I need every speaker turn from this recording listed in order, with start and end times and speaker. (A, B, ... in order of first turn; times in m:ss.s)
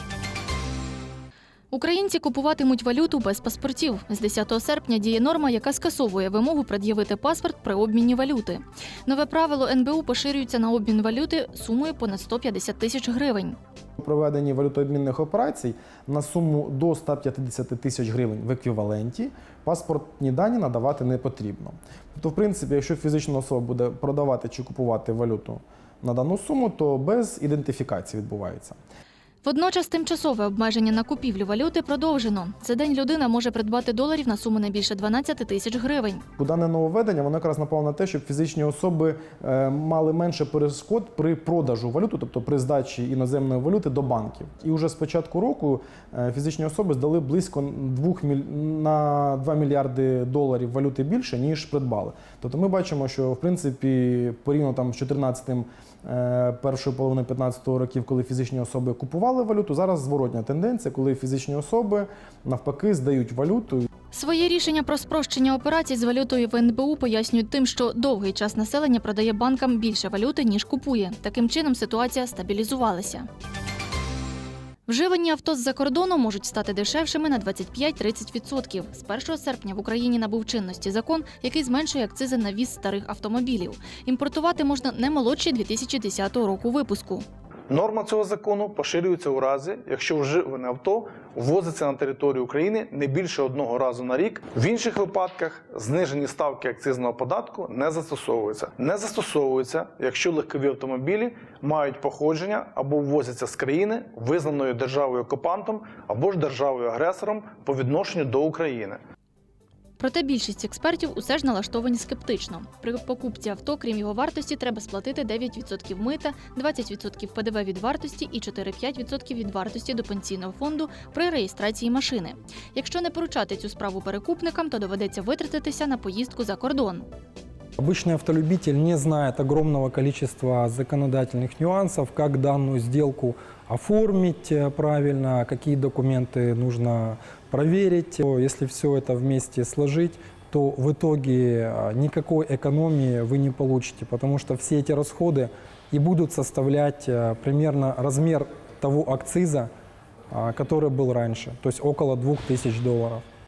0:01.7-0:13.6 A
0:14.0-0:28.8 B
0:29.4-0:36.2 A
0:36.4-1:03.8 B
1:04.1-1:13.3 A
1:14.9-1:27.2 A
1:27.7-1:49.0 C
1:50.0-2:07.0 A
2:07.8-2:29.7 D
2:30.3-2:33.2 D